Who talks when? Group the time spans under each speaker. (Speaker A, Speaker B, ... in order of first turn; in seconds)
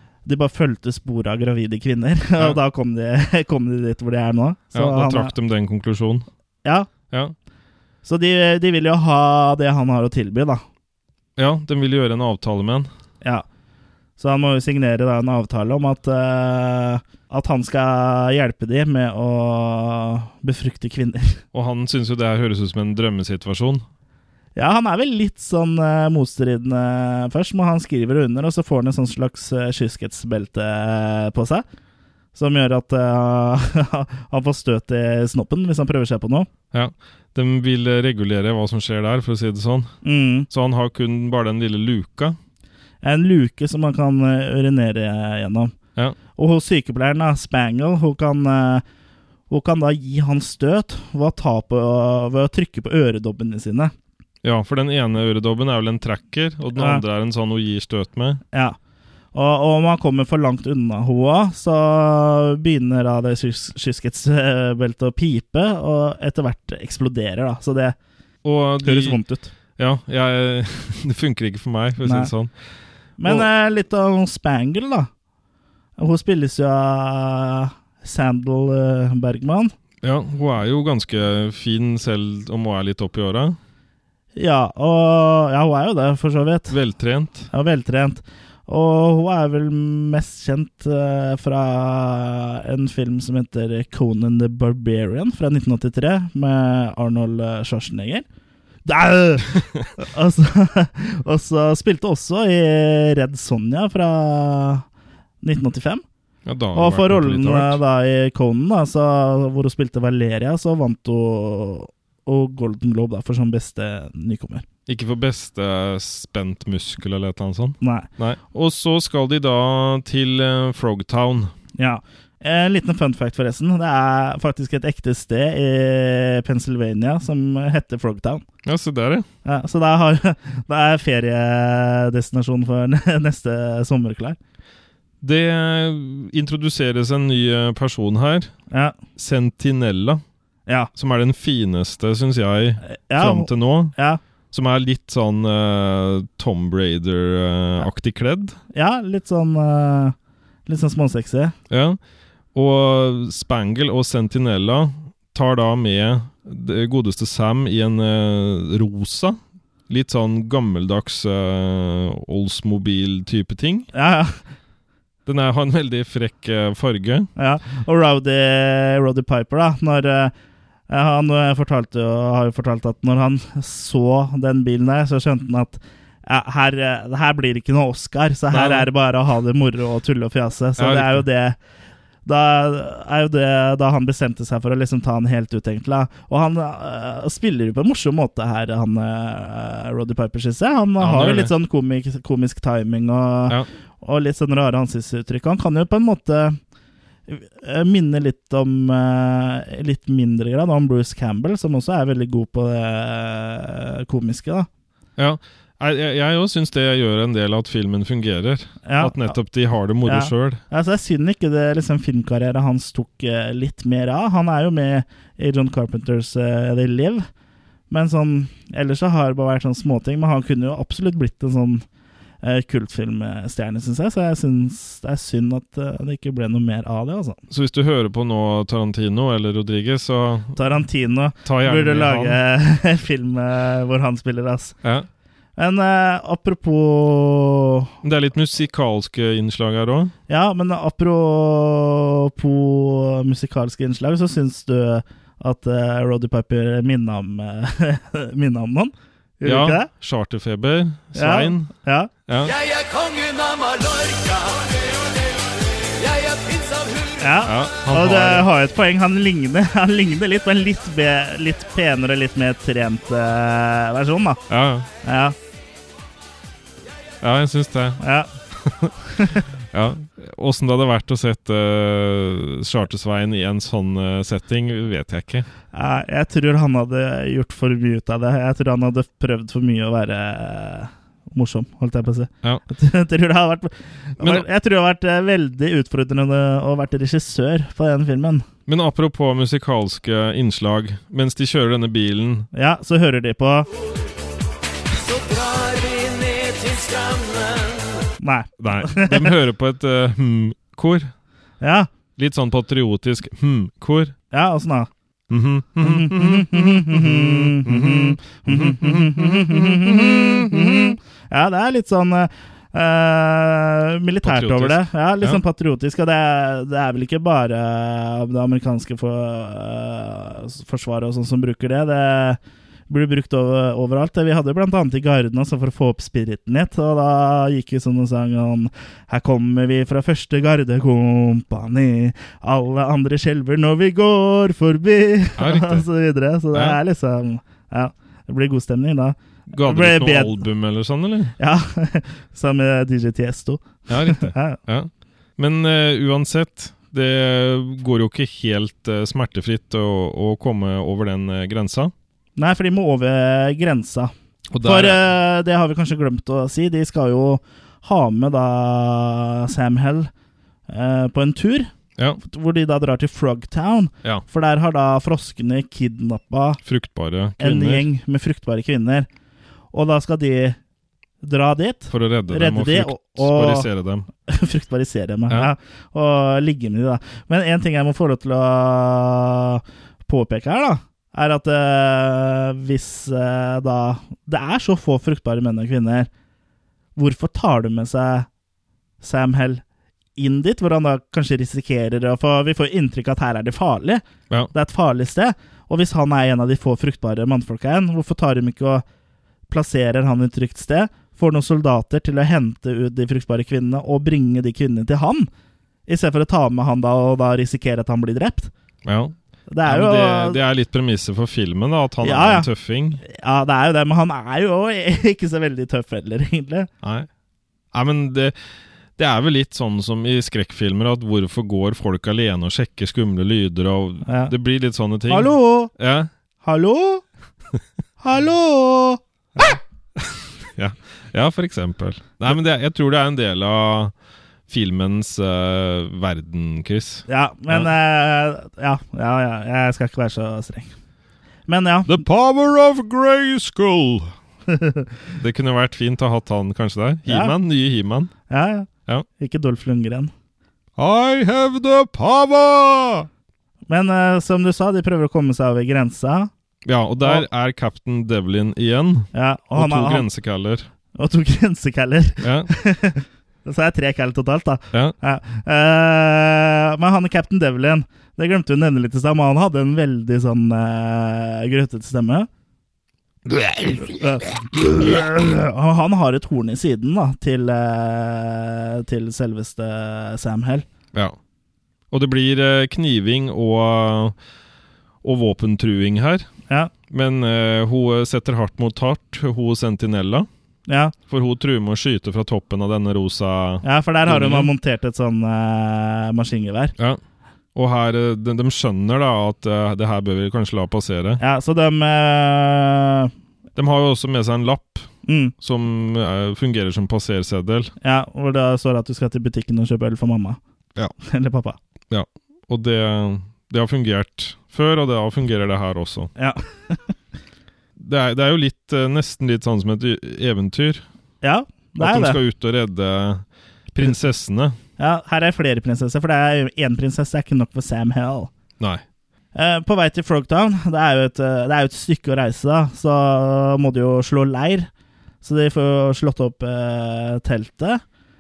Speaker A: 0.3-5.3, 6.6-6.9, 8.0-10.6, 14.2-21.4, 24.6-31.6, 32.4-36.5, 40.0-40.5, 43.0-45.7, 46.4-48.8, 49.5-53.9, 56.8-57.0, 59.3-68.0, 68.8-69.5, 72.0-72.3, 73.2-75.1, 76.0-79.7, 84.4-86.8, 87.5-98.2, 98.8-104.8, 105.4-106.0, 106.7-114.6, 117.8-118.1, 121.8-128.4, 129.4-134.4, 142.8-144.2, 148.7-150.2, 150.7-151.6, 163.9-164.4, 167.4-170.3, 170.9-181.6, 182.2-196.6, 197.3-204.7, 208.8-209.3, 210.1-217.3, 217.9-221.8, 222.4-227.4, 230.6-234.8, 235.6-237.9, 240.3-249.9, 251.1-252.1, 257.2-264.4, 265.0-265.4, 268.0-268.3, 269.1-269.4, 275.7-288.5, 292.5-293.7, 298.2-299.4, 301.6-301.9, 304.3-304.9, 305.8-340.4, 341.4-344.6, 352.4-360.1, 360.7-366.6, 367.4-369.1, 369.7-370.6, 371.2-373.7, 374.3-386.1, 387.0-388.3, 389.0-389.6, 390.2-398.9, 399.5-405.3, 405.9-408.5, 409.5-410.4, 412.0-412.5, 413.0-416.7, 424.1-424.3, 425.1-425.7, 426.4-427.0, 428.0-429.6, 437.1-440.7, 441.5-442.0, 444.5-444.9, 447.1-447.3, 448.3-450.1, 453.7-456.3, 459.1-460.1, 460.9-472.3, 473.7-480.7, 490.7-490.9, 493.6-496.7, 501.2-503.1, 505.1-505.3, 507.8-510.4, 511.0-511.6, 516.2-516.9, 521.2-522.2, 524.8-528.3, 529.4-534.7, 535.2-537.8
Speaker B: 4.7-6.3, 7.1-7.3, 11.4-12.9, 21.5-23.9, 36.7-39.9, 40.5-42.4, 54.4-58.4, 68.4-69.2, 69.8-72.5, 80.0-83.6, 86.7-87.5, 106.5-107.8, 114.9-121.5, 128.7-129.3, 135.2-138.5, 139.2-140.2, 140.9-143.9, 144.5-148.6, 151.7-152.0, 152.5-163.9, 165.3-167.3, 178.5-178.9, 180.8-181.2, 191.0-191.5, 205.2-210.6, 227.5-230.6, 231.4-232.4, 238.0-240.1, 249.4-251.7, 252.3-252.6, 257.4-258.5, 264.5-264.9, 267.2-268.0, 268.5-275.5, 284.2-284.5, 288.7-292.5, 298.6-301.1, 302.2-304.1, 305.3-310.9, 314.2-315.4, 335.4-335.9, 336.5-336.8, 339.5-341.4, 343.9-351.9, 354.5-355.0, 366.6-367.9, 371.9-374.1, 408.9-413.0, 416.8-417.1, 417.7-418.4, 419.0-426.1, 430.0-433.9, 434.5-437.7, 441.9-444.1, 445.2-448.1, 450.8-453.1, 456.6-460.7, 462.2-462.5, 481.9-484.1, 485.0-486.3, 486.9-490.3, 491.1-494.5, 497.6-501.2, 503.6-507.7, 511.9-516.1, 517.8-520.8, 521.8-524.6
Speaker C: 252.5-254.8, 255.9-257.2, 295.1-297.8